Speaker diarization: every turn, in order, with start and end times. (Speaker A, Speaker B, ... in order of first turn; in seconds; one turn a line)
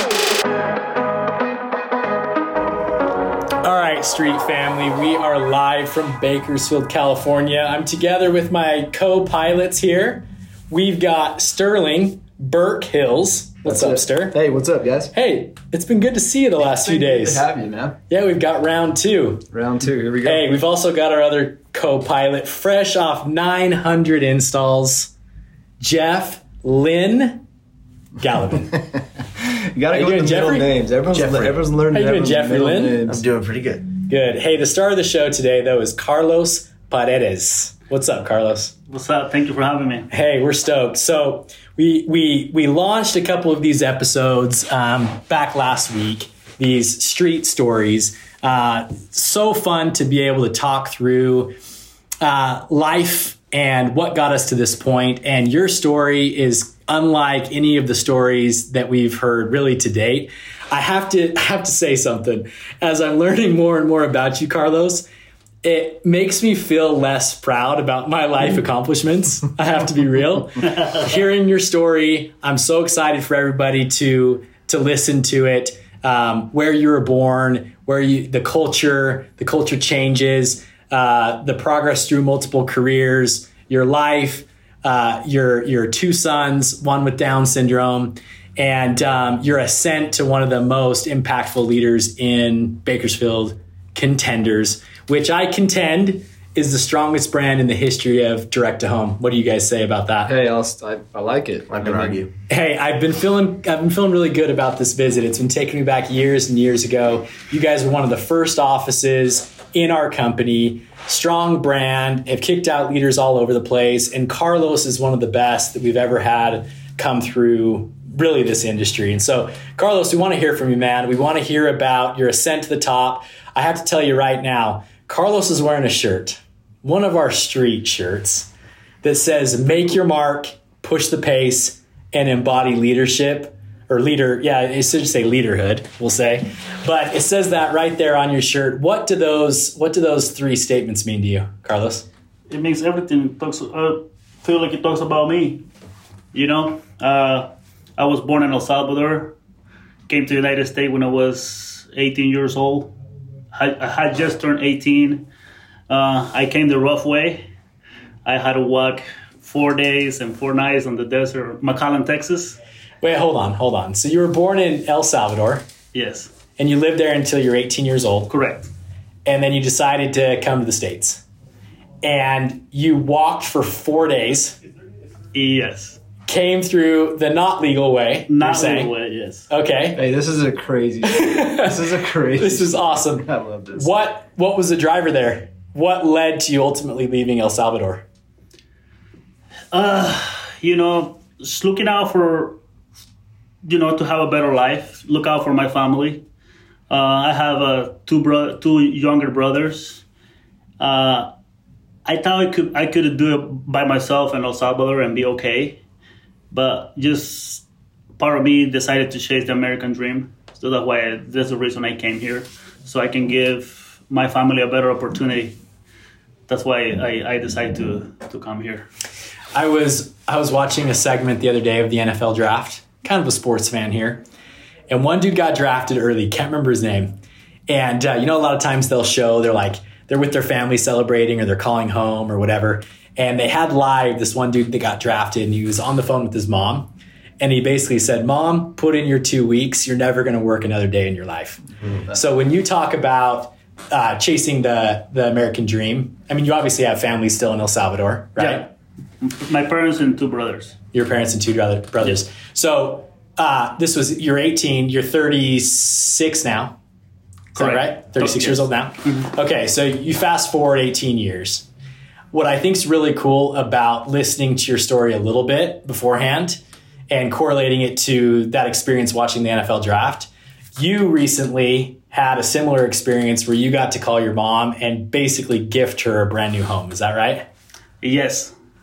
Speaker A: 3.6-14.4
Speaker B: 13.6-15.1
Speaker A: 15.1-17.4
Speaker B: 16.7-18.0
Speaker A: 18.1-19.5
Speaker B: 19.5-20.5
Speaker A: 20.2-25.1
Speaker A: 25.8-27.4
Speaker A: 28.2-28.8
Speaker B: 29.4-33.2
Speaker A: 29.9-30.7
Speaker C: 31.1-31.6
Speaker A: 31.9-33.0
Speaker C: 33.0-33.9
Speaker A: 34.0-38.7
Speaker D: 38.9-40.1
Speaker A: 40.1-51.5
Speaker A: 52.2-65.1
Speaker A: 65.6-100.3
Speaker B: 100.2-102.2
Speaker C: 101.7-102.3
Speaker A: 102.5-128.5
Speaker A: 129.0-142.0
Speaker D: 142.5-145.6
Speaker D: 146.3-149.3
Speaker D: 150.1-152.9
Speaker D: 153.5-155.3
Speaker D: 155.9-157.4
Speaker D: 158.2-162.6
Speaker A: 163.0-165.6
Speaker D: 165.9-166.3
Speaker A: 166.6-168.3
Speaker D: 168.3-168.7
Speaker A: 169.2-171.2
Speaker A: 172.0-174.6
Speaker D: 175.3-176.0
Speaker A: 176.3-178.9
Speaker D: 178.3-179.5
Speaker A: 179.5-180.0
Speaker B: 179.9-183.9
Speaker A: 181.0-181.8
Speaker A: 182.3-188.0
Speaker D: 189.7-192.6
Speaker D: 193.6-196.2
Speaker D: 196.9-200.0
Speaker D: 200.8-201.3
Speaker D: 202.1-205.8
Speaker D: 206.5-207.6
Speaker D: 208.2-215.6
Speaker D: 216.5-218.8
Speaker A: 219.5-224.2
Speaker A: 224.9-236.9
Speaker A: 237.4-248.7
Speaker D: 248.4-250.8
Speaker A: 250.9-256.8
Speaker D: 257.5-259.3
Speaker A: 257.5-261.6
Speaker A: 262.3-277.4
Speaker D: 278.0-278.5